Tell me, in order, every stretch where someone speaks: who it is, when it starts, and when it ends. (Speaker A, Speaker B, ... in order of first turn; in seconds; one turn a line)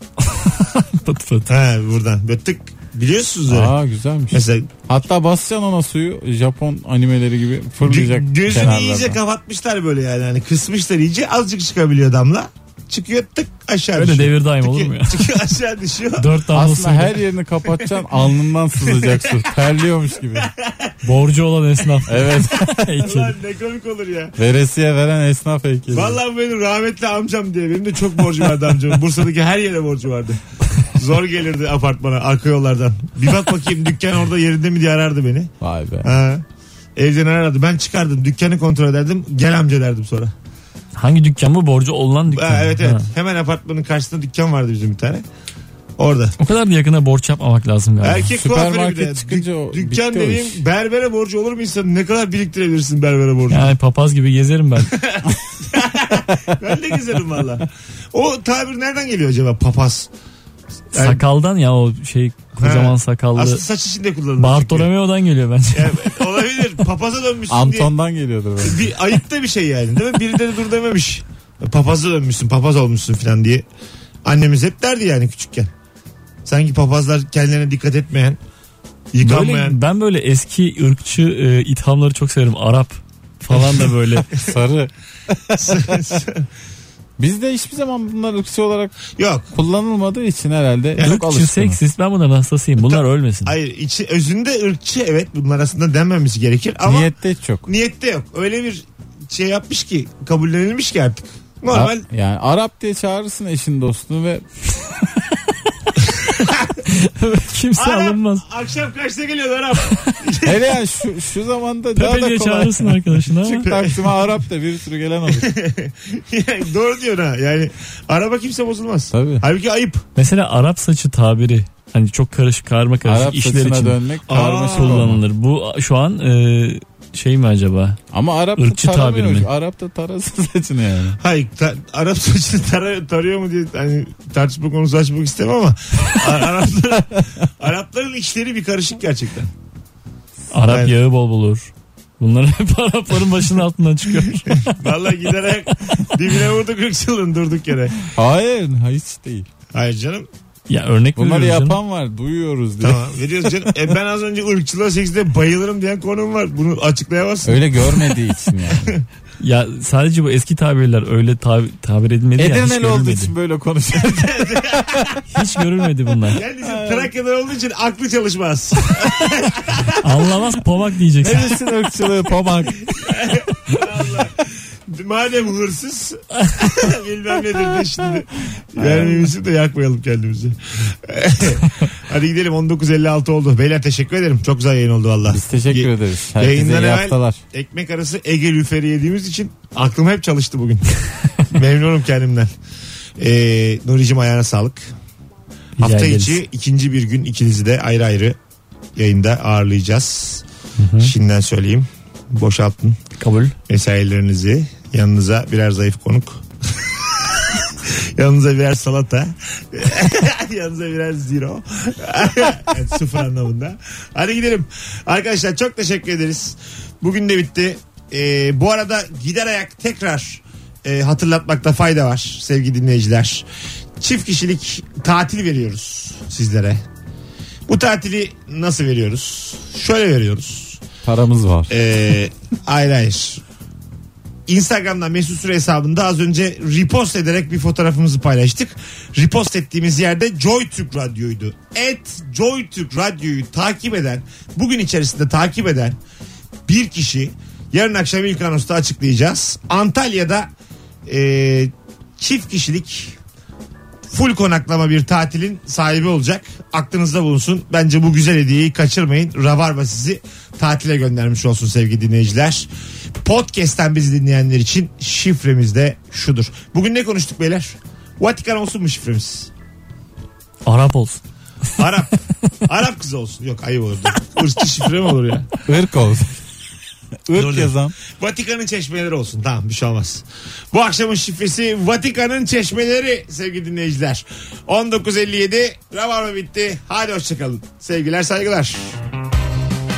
Speaker A: 0.3-1.5
Speaker B: 1.5-3.7
Speaker C: 3.5-9.2
Speaker B: 4.3-4.7
Speaker B: 7.8-16.4
Speaker A: 13.9-15.3
Speaker A: 16.2-17.2
Speaker C: 16.5-20.5
Speaker B: 17.7-18.1
Speaker B: 18.8-19.5
Speaker B: 20.5-20.9
Speaker A: 21.0-23.3
Speaker C: 22.1-23.0
Speaker B: 23.0-24.4
Speaker C: 24.4-26.2
Speaker B: 25.9-36.4
Speaker C: 35.6-36.1
Speaker B: 37.0-40.3
Speaker A: 40.9-43.1
Speaker B: 42.3-45.2
Speaker B: 46.0-46.4
Speaker A: 46.4-48.3
Speaker B: 48.0-53.7
Speaker C: 48.4-50.6
Speaker A: 53.5-55.0
Speaker B: 54.9-60.1
Speaker B: 60.9-61.2
Speaker A: 60.9-63.6
Speaker B: 62.6-64.9
Speaker A: 64.4-66.2
Speaker B: 65.7-67.9
Speaker C: 67.5-68.9
Speaker B: 68.6-73.6
Speaker B: 74.2-75.7
Speaker B: 76.5-78.4
Speaker B: 79.1-79.8
Speaker A: 79.2-84.3
Speaker C: 84.4-86.0
Speaker B: 85.5-86.5
Speaker C: 87.2-89.0
Speaker B: 89.1-89.5
Speaker C: 89.5-91.8
Speaker A: 91.0-93.5
Speaker B: 92.8-97.1
Speaker C: 96.8-97.7
Speaker B: 97.7-102.0
Speaker C: 101.7-104.5
Speaker A: 105.3-108.4
Speaker B: 107.8-110.7
Speaker A: 109.8-110.2
Speaker C: 110.4-115.5
Speaker A: 112.0-113.7
Speaker B: 113.6-114.2
Speaker B: 115.3-120.0
Speaker C: 119.1-119.4
Speaker A: 120.2-128.0
Speaker C: 123.0-125.2
Speaker B: 124.3-125.1
Speaker C: 128.1-131.2
Speaker A: 128.6-129.5
Speaker B: 131.2-139.5
Speaker A: 140.5-144.8
Speaker B: 140.7-140.9
Speaker B: 144.5-148.0
Speaker C: 148.1-149.5
Speaker B: 149.7-150.3
Speaker A: 150.7-151.8
Speaker C: 151.2-153.7
Speaker B: 152.8-159.0
Speaker C: 157.4-158.9
Speaker A: 159.4-163.3
Speaker C: 162.3-165.2
Speaker B: 164.0-165.2
Speaker A: 165.3-166.4
Speaker B: 166.3-170.0
Speaker C: 166.6-167.1
Speaker A: 170.0-171.5
Speaker C: 171.2-173.0
Speaker B: 172.9-192.5
Speaker C: 178.8-179.3
Speaker C: 185.2-187.4
Speaker B: 193.2-194.8
Speaker A: 195.8-196.4
Speaker B: 195.8-198.3
Speaker B: 198.9-200.4
Speaker A: 200.8-201.1
Speaker B: 201.0-203.0
Speaker A: 203.2-203.5
Speaker B: 203.7-223.4
Speaker B: 224.0-226.8
Speaker B: 227.7-230.8
Speaker C: 231.0-231.7
Speaker B: 231.7-233.4
Speaker B: 234.5-246.0
Speaker B: 246.7-250.5
Speaker B: 251.1-253.2
Speaker B: 254.1-262.7
Speaker B: 263.2-269.5
Speaker A: 270.6-271.2
Speaker B: 271.8-275.5
Speaker C: 275.7-276.4
Speaker C: 277.3-277.9
Speaker B: 277.3-288.9